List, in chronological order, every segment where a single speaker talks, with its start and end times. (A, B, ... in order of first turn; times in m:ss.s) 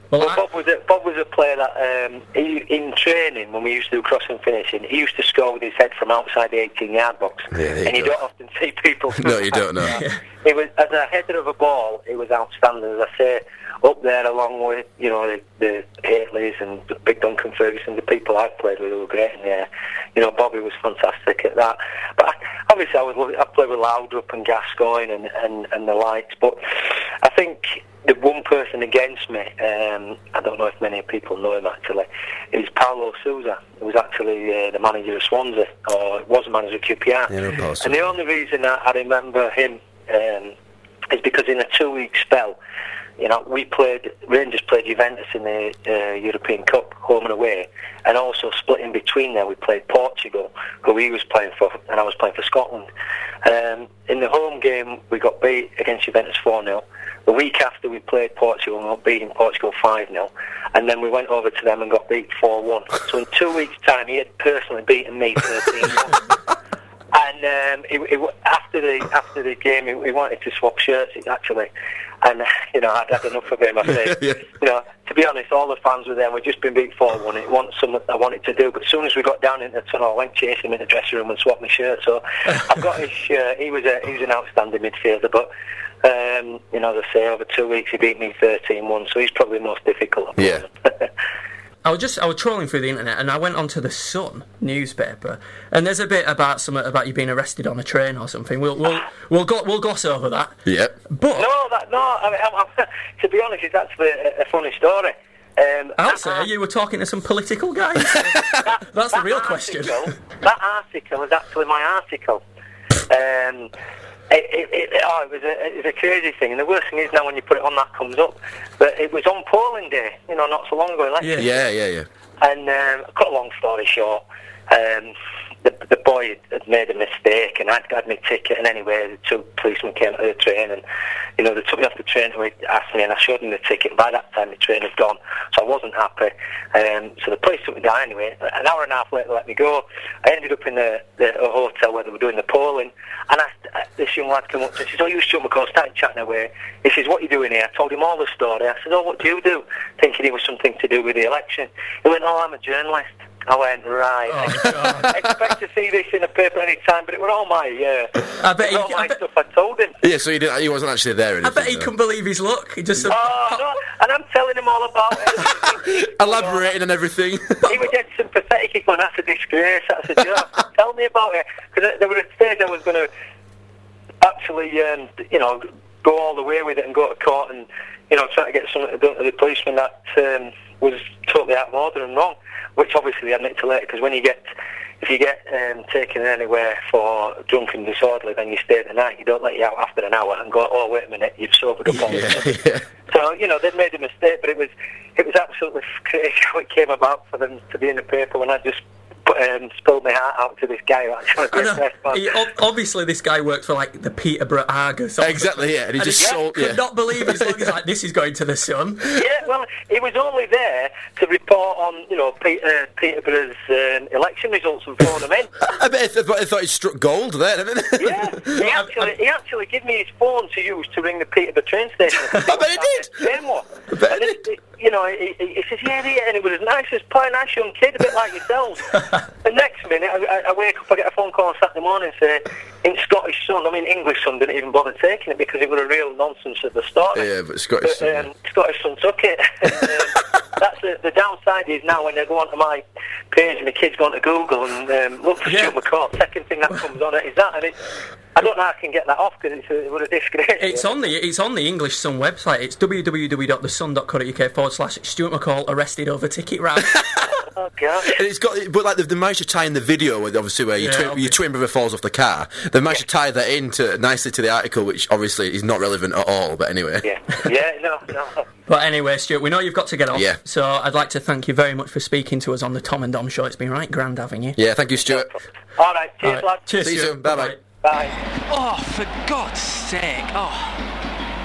0:00.1-0:00.4 A
0:00.2-0:40.6 B
0:07.5-0:08.2 C
0:09.2-0:10.0 C
0:09.8-0:10.2 A
0:37.3-0:38.1 C
0:41.1-0:42.6 B
0:43.2-0:52.9 B
0:53.4-1:06.4 B
1:07.1-1:11.7 B
1:12.2-1:25.5 B
1:13.9-1:14.4 C
1:26.0-1:31.1 B
1:30.4-1:30.6 C
1:31.8-1:40.6 A
1:40.7-1:41.0 C
1:41.1-1:41.5 A
1:41.4-1:46.5 B
1:46.0-1:50.1 A
1:48.6-1:52.4 B
1:53.1-1:53.7 B
1:54.3-2:01.5 B
2:01.2-2:01.5 A
2:01.4-2:02.1 C
2:02.4-2:10.8 B
2:11.4-2:40.0 B
2:34.3-2:35.2 A
2:38.4-2:39.2 A
2:40.0-2:41.9 C
2:41.4-2:43.6 A
2:43.1-2:46.6 B
2:45.6-2:47.9 C
2:47.6-2:53.1 B
2:54.2-3:04.5 B
3:05.0-3:22.3 B
3:12.0-3:12.8 C
3:21.5-3:29.2 A
3:25.2-3:27.7 C
3:29.1-3:35.6 B
3:35.6-3:38.6 C
3:38.0-3:57.3 B
3:38.6-3:38.8 A
3:42.4-3:43.3 C
3:44.0-3:44.3 C
3:57.2-3:58.3 C
3:57.8-4:11.0 B
4:05.5-4:05.8 A
4:10.6-4:17.2 A
4:17.5-4:18.2 B
4:18.0-4:27.1 C
4:20.8-4:21.4 A
4:27.0-4:28.4 B
4:28.7-4:34.6 A
4:30.1-4:30.4 C
4:34.6-4:35.3 C
4:35.1-4:36.8 B
4:36.2-4:37.6 A
4:36.8-4:37.6 C
4:37.7-4:38.2 B
4:38.5-4:40.8 D